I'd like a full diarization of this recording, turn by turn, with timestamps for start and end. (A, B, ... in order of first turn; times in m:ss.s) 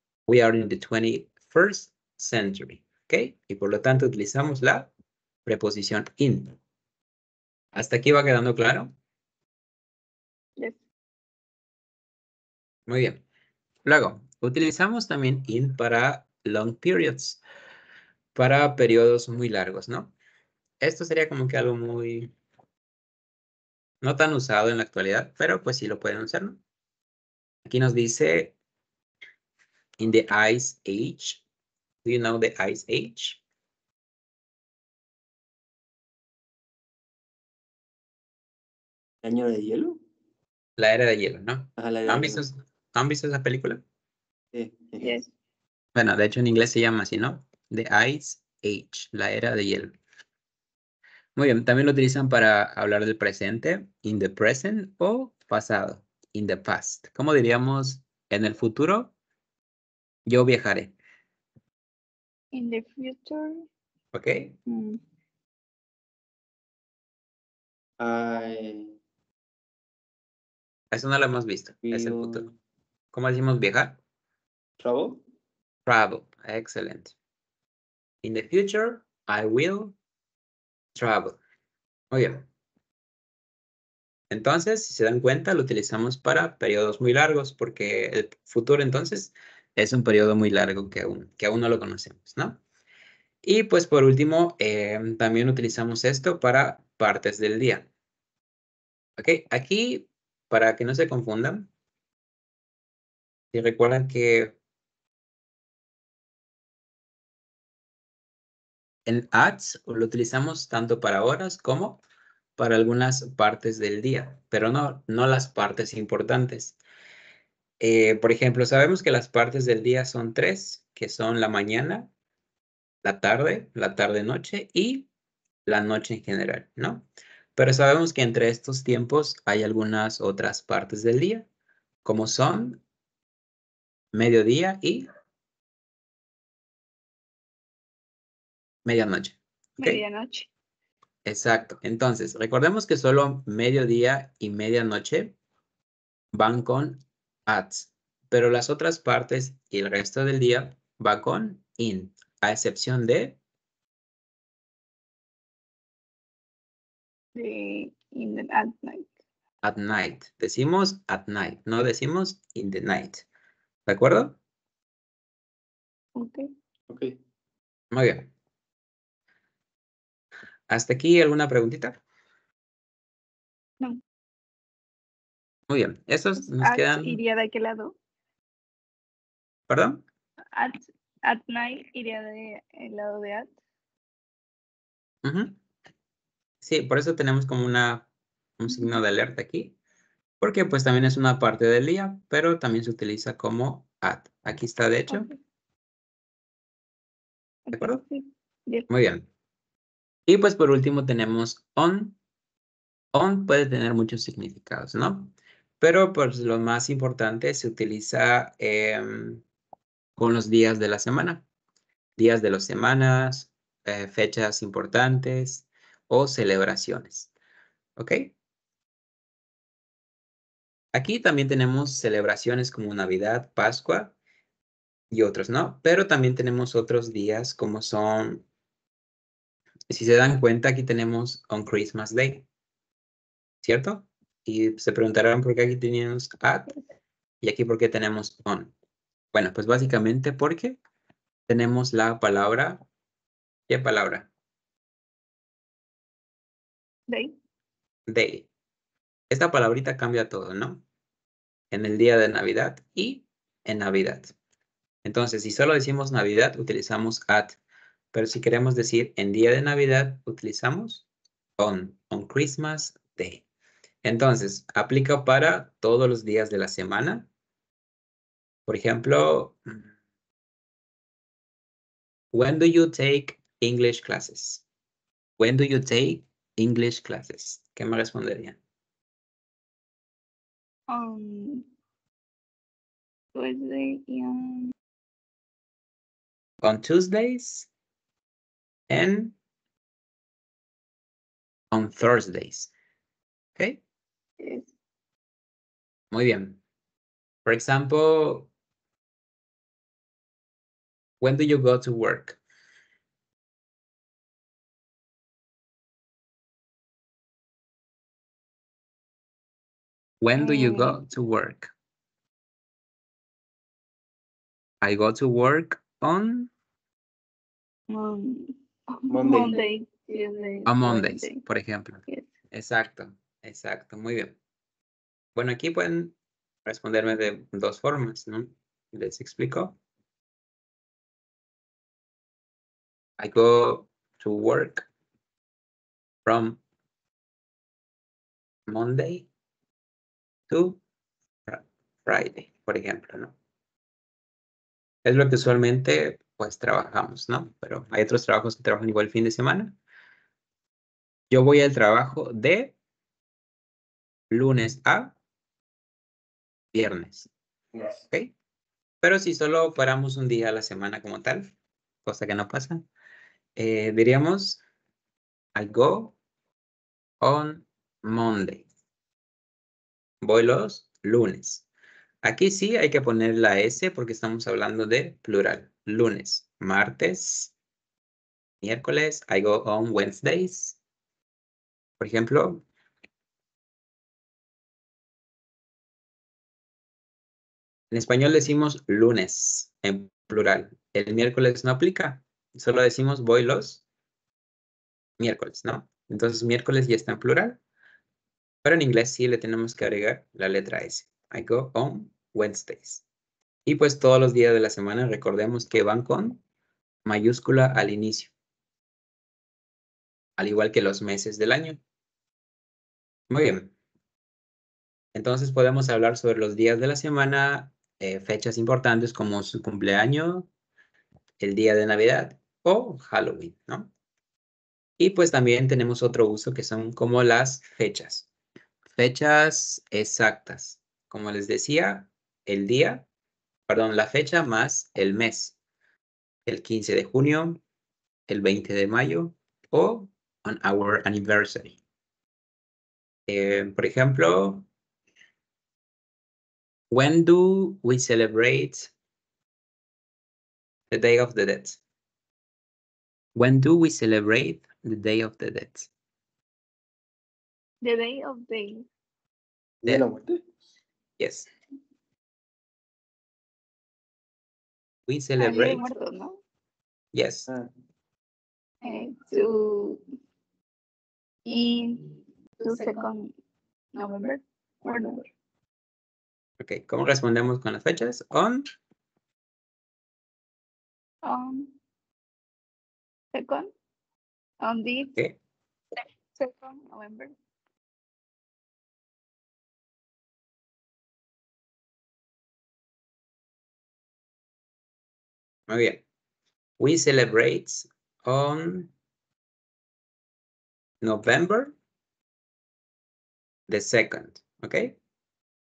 0:00.3-0:04.9 A
0:05.5-0:06.6 A
0:07.7-0:08.9 A
0:12.9-0:13.2 A
0:13.8-0:17.4 A
0:18.4-0:20.1 A
0:20.8-0:22.3 A
0:24.0-0:26.6 A
0:27.7-0:28.6 A
0:30.0-0:31.4 A
0:32.0-0:33.4 A
0:39.2-0:40.0 B
0:40.8-0:43.8 A
0:41.8-0:42.4 B
0:44.5-0:45.2 B
0:45.0-0:45.3 C
0:46.0-0:50.0 A
0:51.4-0:59.1 A
1:00.3-1:01.0 A
1:02.5-1:03.7 C
1:04.1-1:04.6 A
1:04.7-1:05.0 C
1:08.0-1:09.0 B
1:10.9-1:12.4 A
1:11.8-1:12.5 B
1:13.1-1:14.0 A
1:14.8-1:15.2 B
1:15.9-1:17.2 A
1:18.2-1:20.0 A
1:21.0-1:21.4 A
1:22.1-1:22.5 A
1:24.3-1:32.6 A
1:33.4-1:37.9 A
1:39.2-1:41.7 A
1:43.5-1:44.6 A
1:49.1-1:52.0 A
1:52.6-1:56.8 A
1:57.8-2:02.1 A
2:03.0-2:05.1 A
2:05.6-2:11.5 A
2:12.0-2:12.8 A
2:14.1-2:15.1 A
2:18.9-2:20.0 A
2:19.8-2:20.5 C
2:21.2-2:25.4 A
2:26.3-2:33.4 A
2:37.4-2:39.1 C
2:39.6-2:43.3 A
2:43.9-2:44.4 A
2:46.2-2:46.5 C
2:46.9-2:47.2 B
2:47.9-2:48.3 A
2:50.7-2:52.0 A
2:55.7-2:57.2 A
2:56.4-2:58.0 C
2:59.7-3:00.0 A
3:00.6-3:03.5 C
3:05.2-3:05.6 A
3:06.6-3:08.1 A
3:08.6-3:09.8 A
3:10.4-3:15.3 A
3:15.1-3:15.4 C
3:17.7-3:18.9 C
3:17.7-3:18.0 A
3:18.9-3:19.3 A
3:20.3-3:22.2 A
3:23.1-3:29.4 A
3:30.2-3:31.4 A
3:32.2-3:37.3 A
3:38.0-3:38.3 A
3:40.9-3:44.2 A
3:45.1-3:48.5 A
3:49.9-3:52.5 A
3:53.6-3:56.7 A
3:57.4-3:58.7 A
3:59.3-4:00.8 A
4:01.5-4:02.8 A
4:03.7-4:04.3 A
4:07.1-4:07.4 C
4:08.1-4:08.5 A
4:09.3-4:10.8 A
4:11.7-4:14.3 A
4:15.0-4:17.6 A
4:18.1-4:21.1 A
4:21.6-4:23.4 A
4:24.0-4:27.3 A
4:28.7-4:29.8 A
4:32.3-4:34.6 A
4:35.4-4:38.6 A
4:40.9-4:41.7 C
4:43.3-4:44.7 C
4:46.6-4:47.7 A
4:48.9-4:49.4 A
4:51.7-4:52.7 A
4:54.4-4:54.7 C
4:56.1-4:56.6 A
4:57.4-4:58.5 A
5:01.2-5:02.4 A
5:10.2-5:11.7 A
5:10.4-5:11.0 C
5:14.8-5:16.5 A
5:17.9-5:21.4 C
5:19.1-5:19.6 B
5:20.7-5:24.4 A
5:25.4-5:26.1 A
5:26.7-5:29.8 A
5:33.2-5:34.9 A
5:36.2-5:36.6 A
5:38.7-5:39.3 A
5:40.5-5:40.8 A
5:41.5-5:43.4 A
5:45.0-5:49.8 A
5:51.3-5:52.8 A
5:54.3-5:55.2 A
5:56.7-5:57.3 A
5:57.7-5:58.1 B
5:59.0-6:01.5 A
6:02.0-6:02.8 A
6:03.6-6:04.6 A
6:05.6-6:06.2 A
6:07.2-6:08.7 A
6:10.2-6:11.6 A
6:12.2-6:17.5 A
6:18.6-6:20.8 A
6:22.0-6:22.6 A
6:27.9-6:33.8 A
6:35.2-6:37.6 A
6:38.6-6:43.0 A
6:43.6-6:46.4 A
6:47.0-6:48.3 A
6:50.4-6:51.8 A
6:53.3-6:53.7 A
6:55.1-7:00.5 A
7:01.4-7:03.9 A
7:05.0-7:08.3 A
7:09.0-7:13.1 A
7:13.7-7:15.6 A
7:16.5-7:17.6 A
7:18.3-7:21.8 A
7:23.3-7:24.6 A
7:26.9-7:28.9 A
7:30.9-7:31.8 A
7:33.4-7:35.9 A
7:37.8-7:38.9 C
7:39.8-7:40.4 B
7:41.2-7:41.5 A
7:45.1-7:45.9 A
7:45.4-7:46.4 C
7:47.1-7:47.5 A
7:48.8-7:50.0 C
7:51.5-7:53.3 C
7:54.0-7:55.2 C
7:56.6-7:58.7 A
8:01.2-8:01.7 C
8:03.3-8:03.7 C
8:04.6-8:05.2 C
8:06.0-8:07.3 C
8:15.7-8:16.0 A
8:16.8-8:18.9 A
8:21.0-8:21.7 A
8:23.7-8:25.0 A